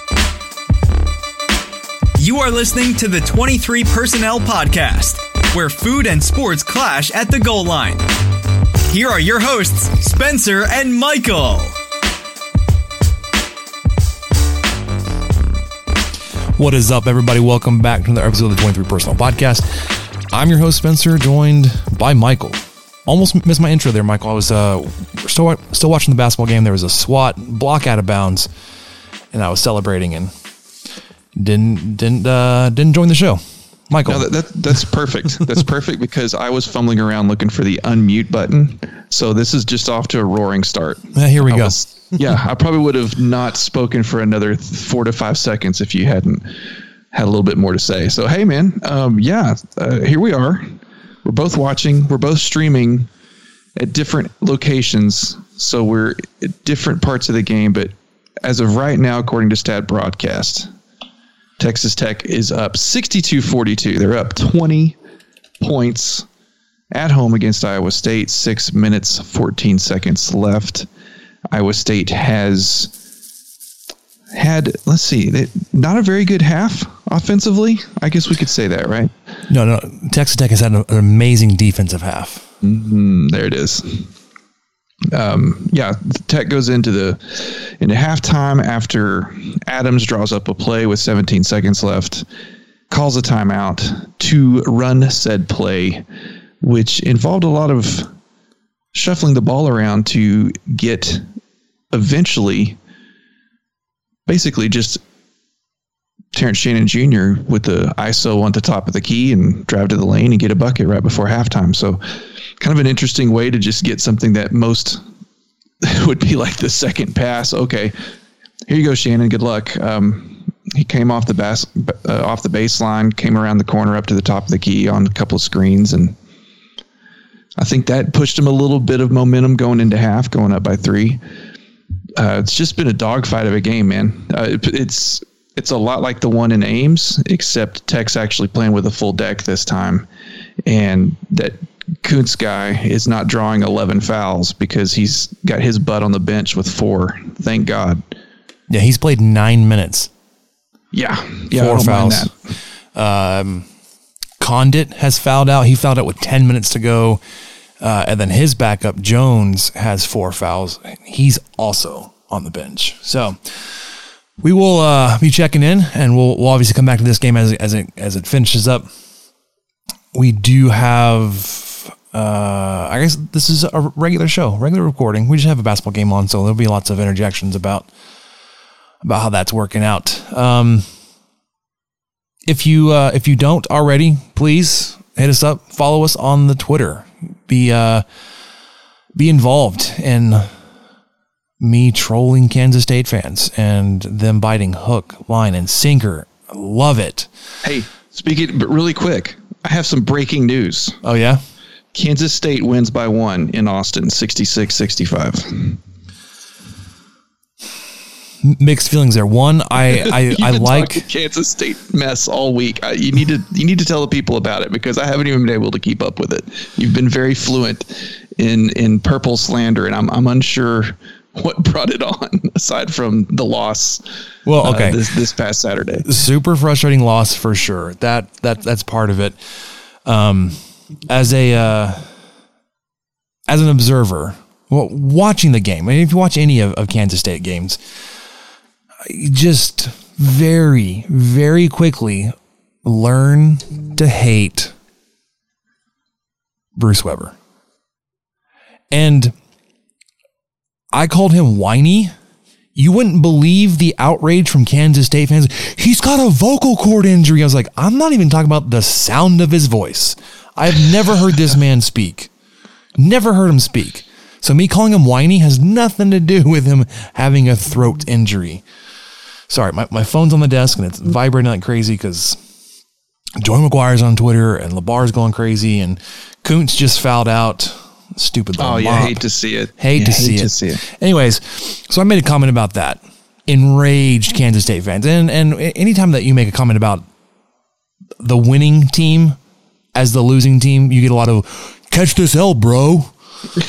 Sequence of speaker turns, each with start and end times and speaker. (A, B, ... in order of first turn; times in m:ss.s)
0:02.2-0:08.0 A
0:08.9-0:11.7 A
0:16.6-0:28.5 B
0:29.3-0:30.3 B
0:31.4-0:34.3 B
0:34.0-0:46.6 C
0:41.1-0:41.8 B
0:47.1-0:53.1 C
0:53.8-1:00.7 C
1:01.6-1:05.0 C
1:05.6-1:06.2 C
1:06.9-1:10.9 C
1:11.5-1:12.9 C
1:14.3-1:19.1 C
1:19.5-1:22.5 B
1:22.6-1:24.1 C
1:25.1-1:32.2 C
1:32.9-1:36.0 C
1:36.6-1:38.1 C
1:38.9-1:41.2 C
1:41.9-1:42.8 C
1:44.3-1:45.0 C
1:46.3-1:52.0 C
1:52.6-1:55.0 C
1:55.8-1:57.9 C
1:58.7-2:06.2 C
2:07.6-2:11.2 C
2:12.2-2:20.1 C
2:20.6-2:28.0 C
2:28.7-2:30.1 B
2:30.9-2:32.3 C
2:31.5-2:32.3 B
2:32.9-2:33.7 B
2:34.4-2:37.2 B
2:37.8-2:48.9 B
2:50.1-2:57.9 B
2:59.0-3:00.8 B
3:02.5-3:08.0 B
3:09.1-3:10.5 B
3:11.6-3:17.3 B
3:17.6-3:21.0 C
3:21.0-3:21.4 B
3:21.9-3:25.8 C
3:28.4-3:31.0 B
3:29.9-3:44.0 C
3:44.4-3:45.2 B
3:44.6-3:46.1 C
3:46.0-3:49.4 B
3:50.0-3:52.1 B
3:53.5-3:57.8 B
3:59.0-4:04.7 B
4:06.8-4:07.4 B
4:08.9-4:09.3 B
4:10.9-4:12.1 B
4:12.7-4:22.3 B
4:23.0-4:28.6 B
4:29.5-4:32.4 B
4:33.4-4:39.2 B
4:38.6-4:40.8 C
4:39.8-4:47.0 B
4:48.2-4:49.4 B
4:49.9-4:53.1 B